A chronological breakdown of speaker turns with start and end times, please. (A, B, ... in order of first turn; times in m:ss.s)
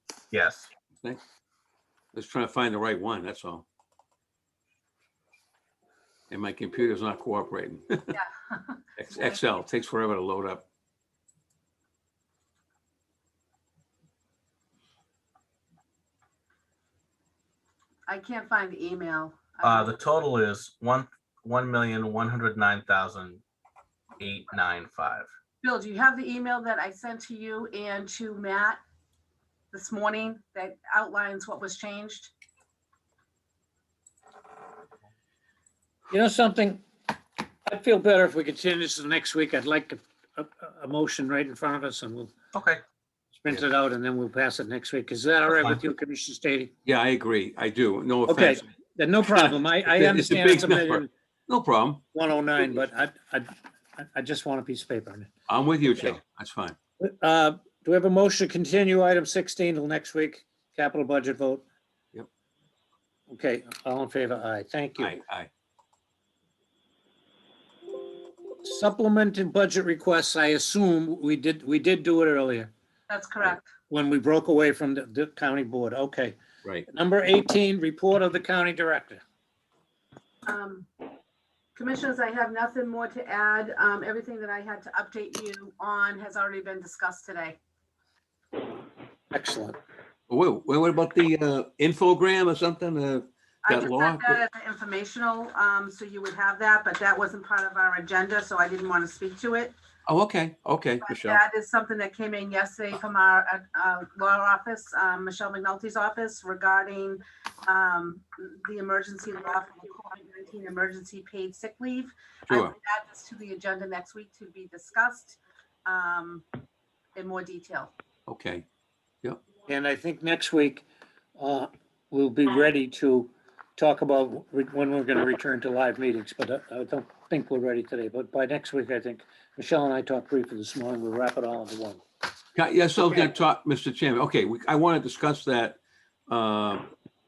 0:00.3-0:00.7 A
0:02.1-0:03.6 B
0:06.3-0:08.2 B
0:08.1-0:09.4 C
0:09.0-0:10.6 B
0:18.1-0:19.9 C
0:19.6-0:23.4 A
0:24.2-0:25.3 A
0:25.6-0:28.8 C
0:29.7-0:32.3 C
0:36.1-0:36.8 D
0:37.7-0:42.3 D
0:42.5-0:42.8 A
0:43.3-0:46.7 D
0:46.8-0:48.7 B
0:48.2-0:51.1 D
0:49.3-0:52.0 B
0:52.1-0:55.3 D
0:55.5-0:56.8 B
0:57.0-1:01.6 D
1:03.3-1:05.2 D
1:05.0-1:05.5 B
1:08.6-1:12.7 D
1:13.1-1:13.7 C
1:13.9-1:16.3 D
1:16.9-1:19.2 D
1:20.4-1:20.9 C
1:21.7-1:27.6 C
1:29.3-1:29.8 D
1:30.3-1:34.4 B
1:33.6-1:39.7 C
1:40.1-1:41.4 B
1:41.0-1:56.4 C
1:52.5-1:52.7 B
1:57.1-1:57.9 C
1:58.3-1:58.6 B
1:59.7-2:00.8 D
2:01.4-2:12.0 D
2:12.5-2:16.9 B